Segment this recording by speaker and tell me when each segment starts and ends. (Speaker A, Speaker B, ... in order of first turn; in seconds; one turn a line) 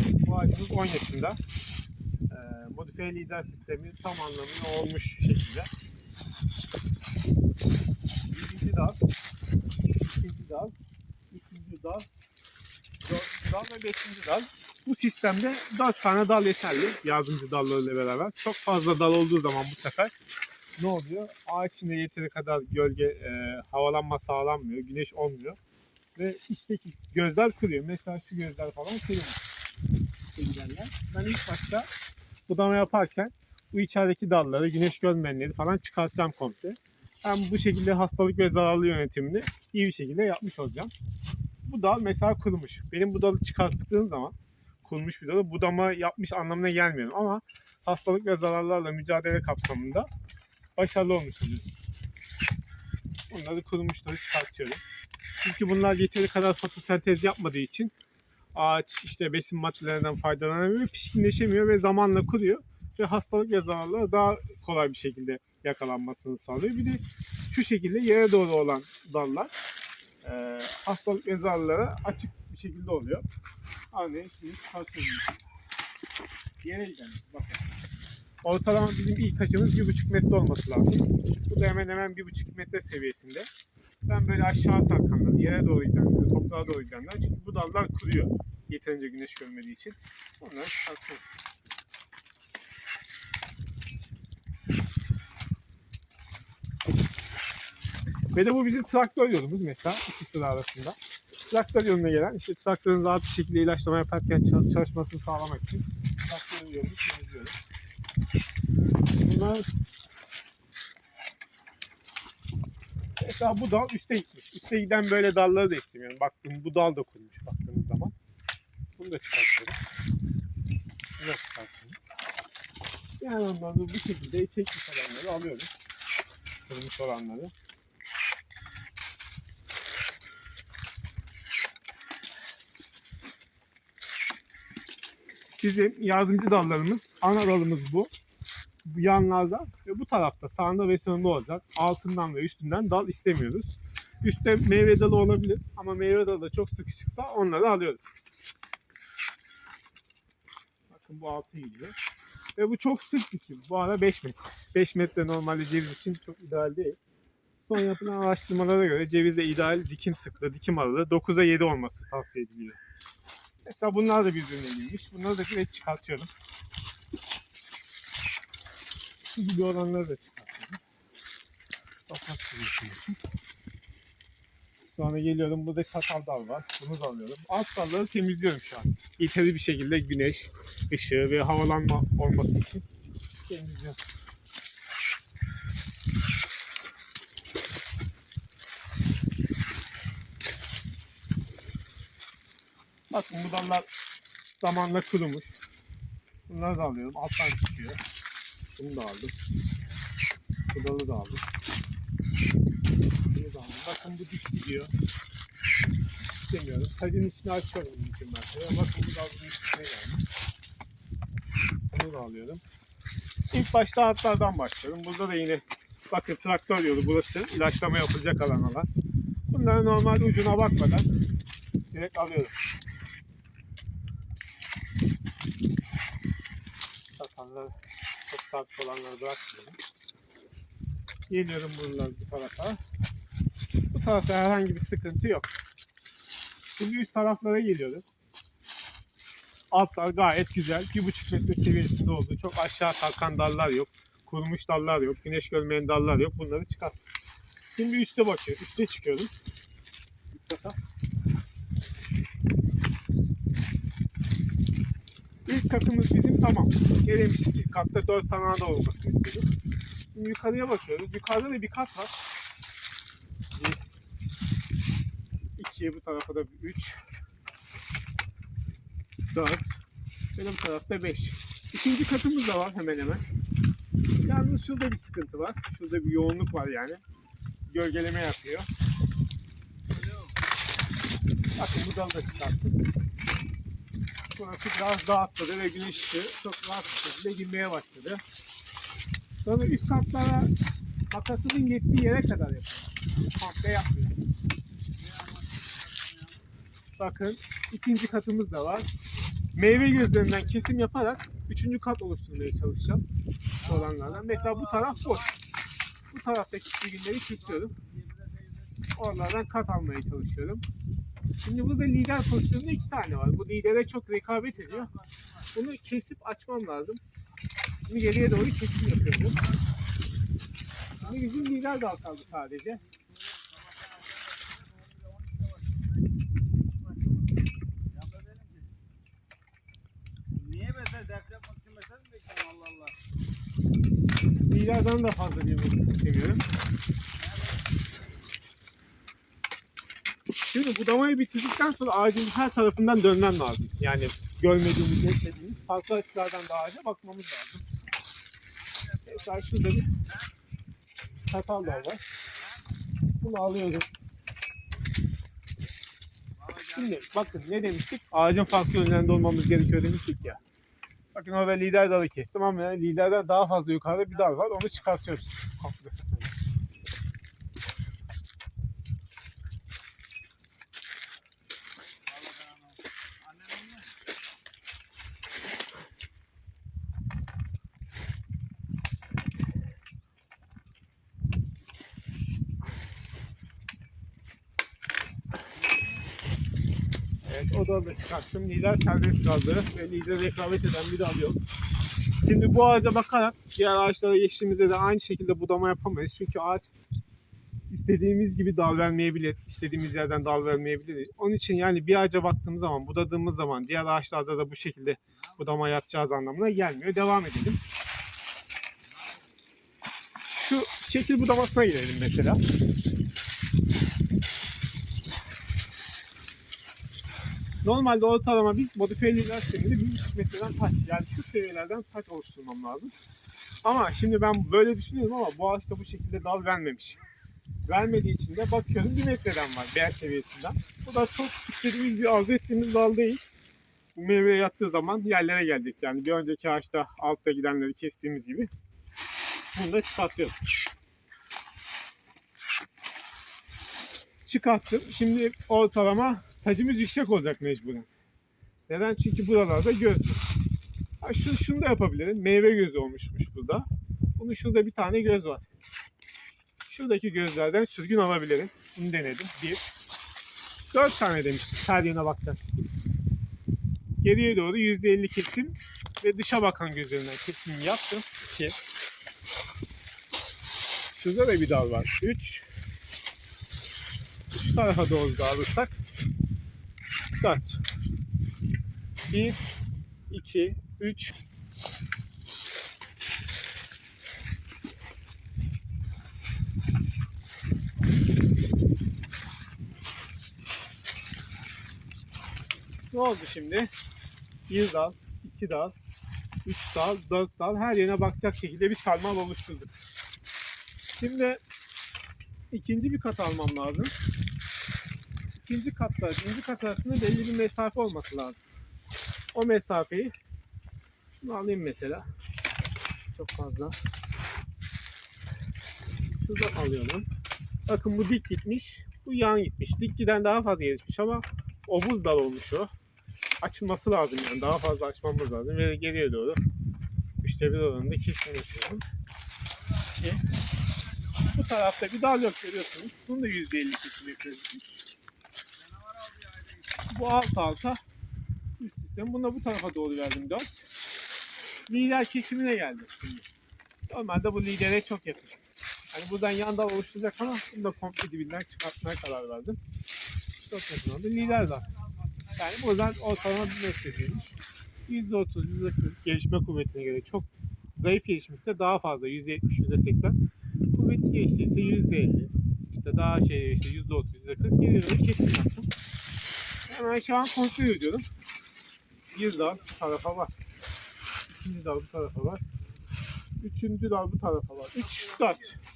Speaker A: 0.2-1.4
Speaker A: 2.3-5.7
Speaker A: 8.3-9.0
Speaker A: 10.0-10.7
Speaker A: 11.3-12.1
Speaker A: 13.0-20.1
Speaker A: 20.8-25.6
Speaker A: 26.2-29.4
Speaker A: 30.4-31.9
Speaker A: 32.5-40.9
Speaker A: 41.7-50.1
Speaker A: 50.8-51.7
Speaker A: 53.3-54.8
Speaker A: 55.4-57.9
Speaker A: 58.5-69.5
Speaker A: 70.2-73.2
Speaker A: 73.9-75.4
Speaker A: 76.6-77.6
Speaker A: 78.4-83.5
Speaker A: 84.1-91.3
Speaker A: 98.3-101.0
Speaker A: 101.5-107.6
Speaker A: 109.2-109.7
Speaker A: 113.2-118.2
Speaker A: 119.0-119.8
Speaker A: 121.2-122.0
Speaker A: 123.2-125.7
Speaker A: 126.7-127.5
Speaker A: 135.6-138.1
Speaker A: 138.8-148.1
Speaker A: 150.9-151.9
Speaker A: 152.6-157.0
Speaker A: 157.7-162.8
Speaker A: 163.7-166.3
Speaker A: 169.3-170.8
Speaker A: 172.1-173.2
Speaker A: 175.0-182.8
Speaker A: 183.5-184.0
Speaker A: 193.1-193.9
Speaker A: 194.6-195.6
Speaker A: 196.5-198.0
Speaker A: 198.8-199.3
Speaker A: 200.7-201.4
Speaker A: 203.3-204.9
Speaker A: 206.5-210.2
Speaker A: 211.9-212.6
Speaker A: 213.5-218.9
Speaker A: 219.5-221.1
Speaker A: 221.9-222.6
Speaker A: 227.1-227.8
Speaker A: 228.3-229.8
Speaker A: 231.3-232.8
Speaker A: 233.9-235.6
Speaker A: 236.8-238.1
Speaker A: 239.7-247.0
Speaker A: 247.8-249.3
Speaker A: 250.3-250.8
Speaker A: 255.5-259.5
Speaker A: 260.1-262.1
Speaker A: 263.6-263.8
Speaker A: 265.6-267.0
Speaker A: 269.3-269.8
Speaker A: 270.4-273.2
Speaker A: 274.2-277.0
Speaker A: 277.7-278.7
Speaker B: 279.9-280.4
Speaker A: 281.6-282.8
Speaker A: 284.4-288.2
Speaker A: 289.4-290.5
Speaker A: 291.1-294.2
Speaker B: 295.0-296.5
Speaker A: 297.0-298.9
Speaker A: 299.6-303.0
Speaker B: 299.9-300.4
Speaker A: 303.6-305.3
Speaker B: 303.6-305.4
Speaker A: 306.1-307.7
Speaker B: 307.3-309.0
Speaker A: 308.9-310.6
Speaker A: 311.4-314.9
Speaker B: 314.7-315.2
Speaker A: 315.5-317.0
Speaker A: 317.9-319.4
Speaker A: 321.0-322.8
Speaker B: 321.0-328.7
Speaker B: 330.4-333.0
Speaker A: 334.5-336.4
Speaker B: 337.2-338.1
Speaker A: 340.5-347.6
Speaker B: 348.6-350.3
Speaker A: 349.1-349.9
Speaker A: 351.3-352.0
Speaker A: 353.2-353.9
Speaker B: 356.4-357.4
Speaker A: 356.8-360.4
Speaker A: 361.1-366.4
Speaker B: 372.1-373.9
Speaker B: 385.6-386.1
Speaker A: 387.2-391.4
Speaker A: 392.2-396.7
Speaker A: 397.7-407.6
Speaker B: 408.9-409.4
Speaker A: 410.3-412.4
Speaker A: 417.6-422.9
Speaker A: 423.6-427.0
Speaker A: 427.7-433.2
Speaker A: 433.9-438.5
Speaker A: 439.5-440.4
Speaker A: 444.3-447.9
Speaker A: 448.7-450.2
Speaker A: 451.0-453.7
Speaker A: 454.2-455.4
Speaker A: 456.7-459.6
Speaker A: 460.7-462.7
Speaker A: 464.0-468.6
Speaker A: 470.9-472.5
Speaker A: 474.3-475.8
Speaker A: 477.2-477.6
Speaker A: 479.1-479.4
Speaker A: 480.1-481.2
Speaker A: 492.9-493.7
Speaker A: 494.5-495.8
Speaker A: 496.4-499.7
Speaker A: 501.0-501.4
Speaker A: 502.5-503.9
Speaker A: 505.4-508.4
Speaker A: 509.3-510.1
Speaker A: 511.1-512.1
Speaker A: 513.1-513.8
Speaker A: 516.2-517.1
Speaker A: 517.7-522.7
Speaker A: 523.4-526.4
Speaker A: 527.2-528.8
Speaker B: 529.5-531.7
Speaker A: 530.0-530.2
Speaker A: 531.3-534.9
Speaker B: 535.5-536.9
Speaker A: 536.9-537.8
Speaker A: 538.6-540.6
Speaker A: 541.7-543.3
Speaker A: 543.9-549.6
Speaker A: 550.5-551.7
Speaker B: 551.4-553.4
Speaker A: 552.4-554.4
Speaker A: 554.9-560.2
Speaker A: 560.7-565.7
Speaker A: 566.7-568.1
Speaker A: 569.1-570.3
Speaker A: 571.3-572.4
Speaker A: 573.4-575.6